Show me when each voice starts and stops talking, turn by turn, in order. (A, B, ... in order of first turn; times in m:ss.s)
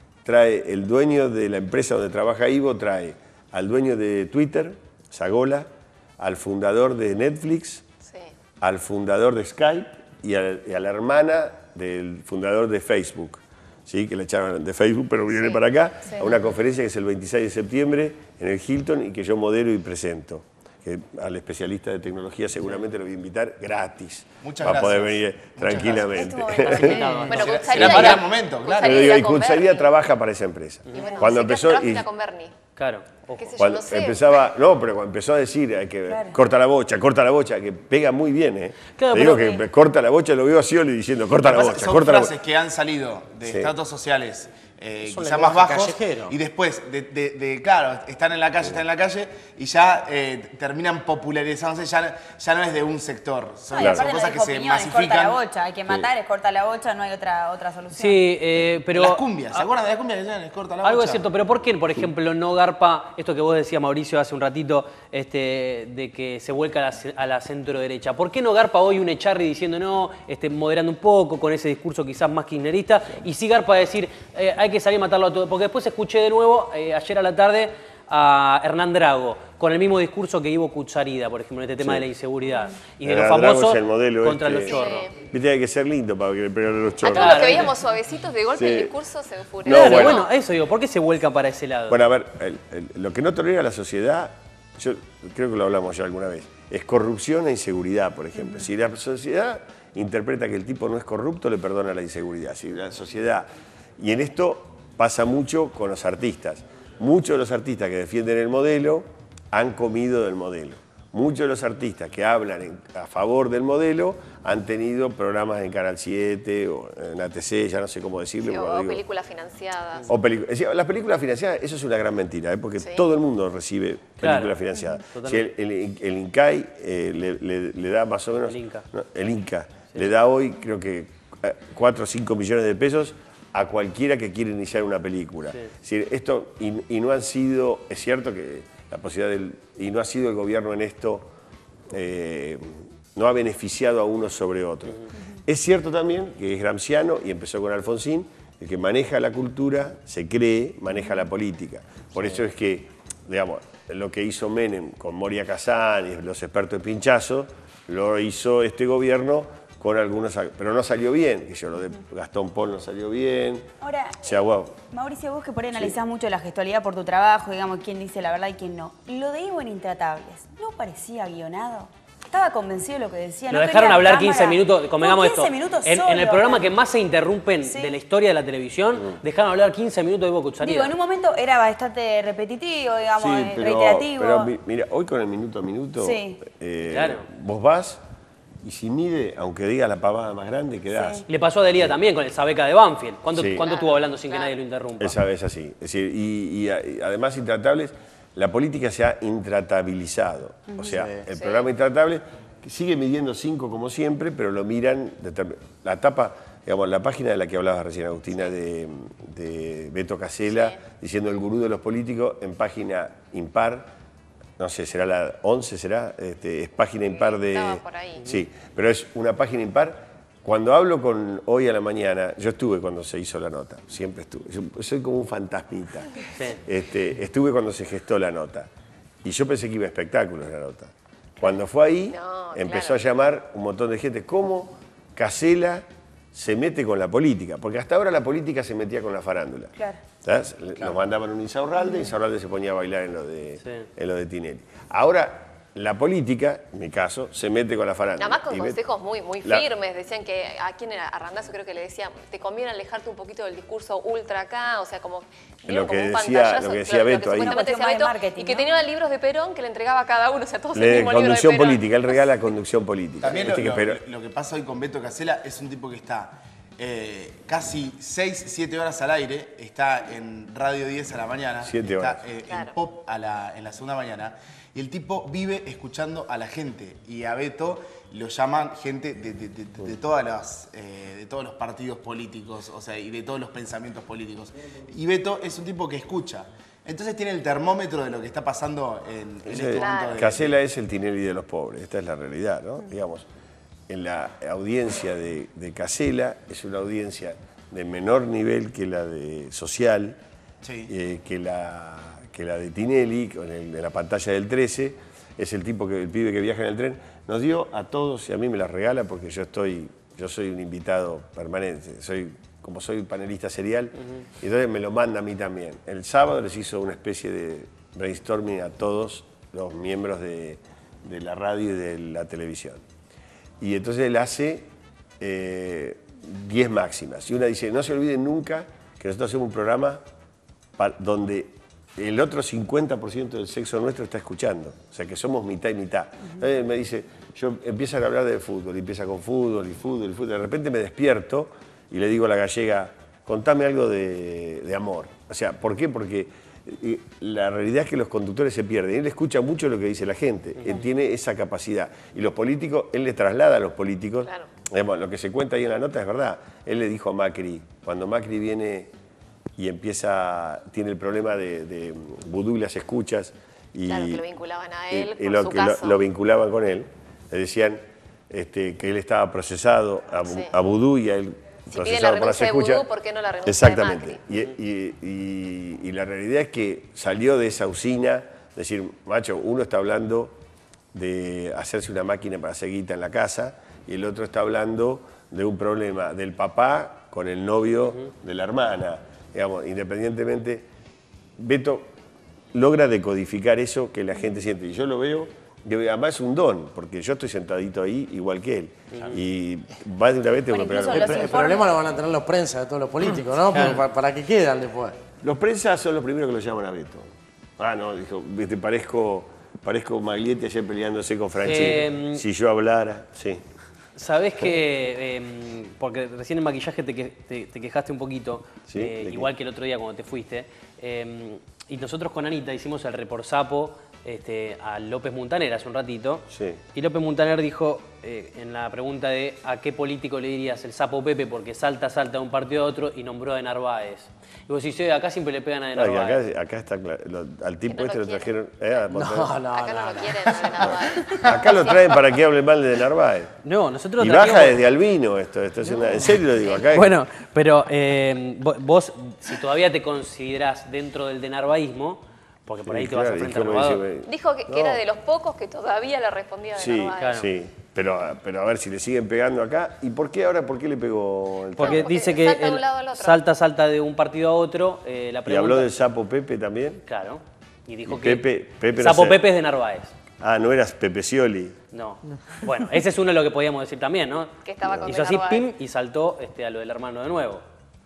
0:00.2-0:07.8 A
0:08.0-0:08.3 B
0:08.6-0:27.2 A
0:24.4-0:26.1 C
0:26.3-0:27.0 D
0:26.6-0:29.9 B
0:26.8-0:28.1 E
0:27.1-0:29.1 C
0:27.8-0:28.2 A
0:28.8-0:32.1 A
0:30.9-0:32.6 B
0:31.0-0:31.3 D
0:32.8-0:33.5 E
0:33.4-0:34.4 B
0:33.6-0:42.4 A
0:36.1-0:36.4 D
0:39.0-0:39.5 E
0:39.3-0:39.6 D
0:41.4-0:55.4 C
0:43.4-0:43.7 A
0:45.0-0:46.4 F
0:53.7-0:58.2 D
0:53.8-0:54.0 A
0:57.9-0:59.7 E
0:58.9-1:01.3 C
1:00.8-1:25.1 E
1:21.8-1:22.1 A
1:23.0-1:27.7 A
1:24.7-1:25.1 B
1:27.0-1:30.3 B
1:27.1-1:27.7 E
1:28.5-1:28.9 A
1:29.6-1:30.3 A
1:29.7-1:32.0 E
1:31.9-1:59.0 A
1:58.4-2:00.1 B
2:00.1-2:21.3 A
2:04.2-2:05.5 E
2:08.5-2:08.8 E
2:21.9-2:43.7 A
2:43.8-2:44.3 D
2:44.2-2:44.8 A
2:44.9-2:56.7 D
2:53.5-3:00.9 E
2:57.6-2:57.9 D
3:00.6-3:04.5 D
3:03.2-3:08.0 A
3:06.0-3:06.4 D
3:06.9-3:07.2 E
3:08.6-3:11.3 A
3:10.9-3:11.2 D
3:11.3-3:15.2 E
3:13.3-3:13.7 A
3:13.6-3:14.6 B
3:15.0-3:33.9 A
3:20.7-3:21.0 D
3:21.3-3:21.7 B
3:30.5-3:30.8 B
3:34.6-3:48.7 A
3:37.1-3:38.2 B
3:49.2-4:08.8 A
3:52.1-3:53.0 B
4:08.2-4:22.2 B
4:15.6-4:17.6 A
4:17.4-4:18.7 D
4:20.7-4:24.0 A
4:23.2-4:50.5 C
4:31.6-4:32.2 A
4:32.5-4:32.8 B
4:49.5-4:53.3 A
4:49.7-4:50.3 B
4:53.9-5:00.2 A
5:00.6-5:00.9 C
5:00.9-5:22.8 A
5:23.6-5:24.7 A
5:25.2-5:30.0 A
5:30.8-5:58.9 A
5:59.6-6:04.2 A
6:03.9-6:06.0 B
6:04.9-6:12.8 A
6:10.3-6:10.5 B
6:11.7-6:14.2 B
6:13.4-6:20.4 A
6:20.9-6:30.7 A
6:31.4-6:31.9 A
6:32.5-6:41.5 A
6:38.9-6:39.2 E
6:40.5-6:41.6 D
6:40.9-6:45.0 F
6:45.2-6:53.4 A
6:51.4-6:52.2 E
6:54.0-7:16.2 E
6:58.7-6:59.3 A
7:06.3-7:06.6 A
7:15.7-7:19.4 A
7:17.7-7:18.3 B
7:18.9-7:20.5 F
7:19.4-7:21.9 B
7:20.6-7:23.4 A
7:23.4-7:24.6 E
7:24.0-7:27.0 A
7:26.6-7:33.8 E
7:32.6-7:34.8 A
7:34.1-7:37.3 B
7:36.6-7:41.9 A
7:37.0-7:37.3 E
7:41.6-7:45.7 E
7:41.6-7:43.2 B
7:45.3-7:46.8 A
7:46.9-7:50.0 E
7:47.9-7:49.3 A
7:50.2-7:51.6 A
7:51.7-7:57.4 E
7:54.4-7:55.5 B